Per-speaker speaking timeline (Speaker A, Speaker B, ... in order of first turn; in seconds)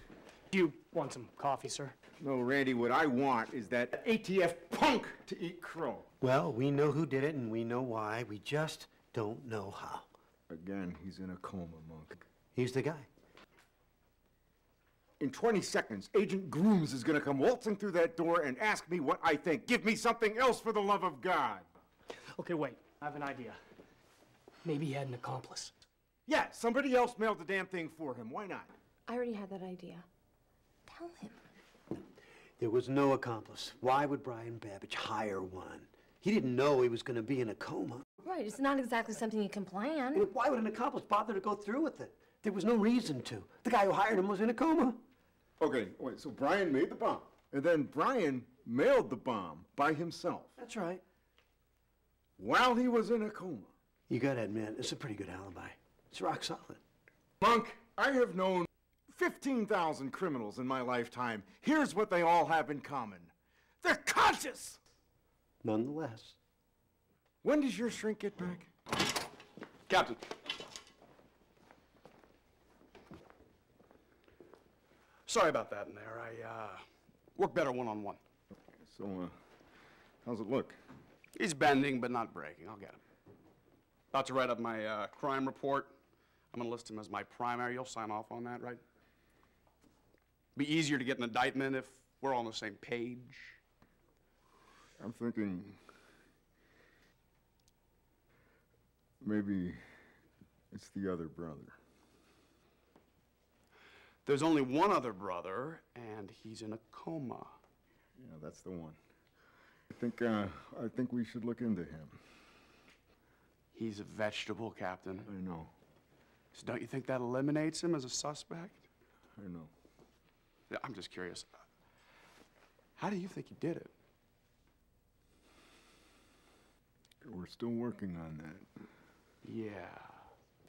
Speaker A: 0.5-1.9, 22.3-23.6, 24.6-25.7
Speaker B: 2.2-6.0, 10.5-12.2, 15.2-21.7, 26.3-28.7, 45.6-50.5, 52.4-53.7, 57.4-64.8, 67.4-68.7, 78.8-79.3, 80.2-80.8, 95.0-95.8, 99.2-99.8, 100.7-101.8, 108.2-109.0, 109.9-112.2, 115.3-115.7, 119.4-119.7, 127.2-128.7
Speaker C: 6.2-10.1, 12.5-13.1, 32.6-38.1, 40.1-45.0, 50.6-51.0, 54.1-56.8, 65.6-66.4
Speaker D: 29.1-30.1, 30.9-31.4, 38.2-40.3
Speaker E: 69.9-70.2, 75.3-76.8, 77.4-78.2, 81.3-83.0, 84.1-85.9, 86.5-88.8, 90.6-93.6, 104.2-107.5, 113.7-115.3, 116.5-118.8, 120.7-121.5, 123.0-123.9, 129.4-130.2